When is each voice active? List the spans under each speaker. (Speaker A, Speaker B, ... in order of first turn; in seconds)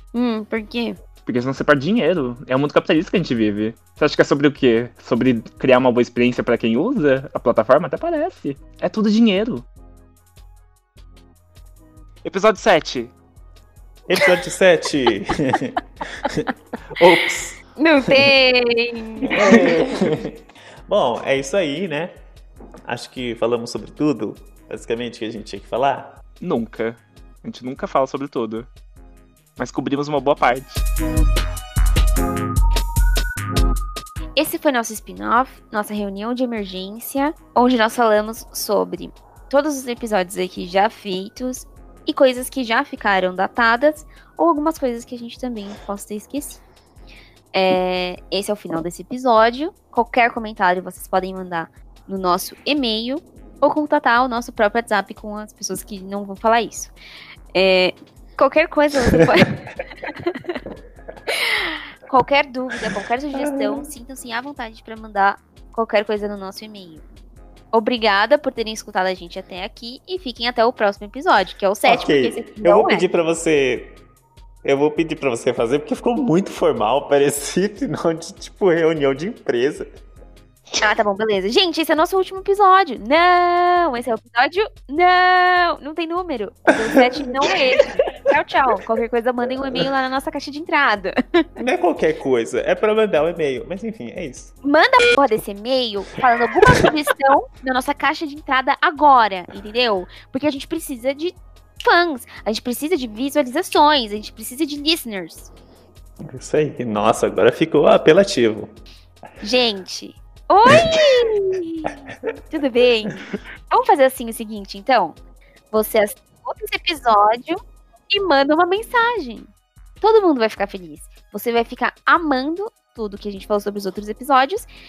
Speaker A: 0.1-1.0, 17.8-19.6, 34.4-46.6, 47.5-56.9, 57.5-60.5, 61.3-67.0, 67.7-73.1, 80.8-91.1, 94.6-105.5, 109.4-111.9, 112.5-115.2, 115.7-117.6, 118.1-119.5, 120.0-124.7
Speaker B: 1.3-9.7, 12.2-13.1, 26.4-28.7, 29.6-30.8
Speaker C: 14.1-17.6, 19.3-22.2, 22.9-26.2, 63.4-63.9, 71.8-74.0, 74.6-79.9, 87.2-87.6, 91.6-94.5, 106.3-108.7, 110.7-111.2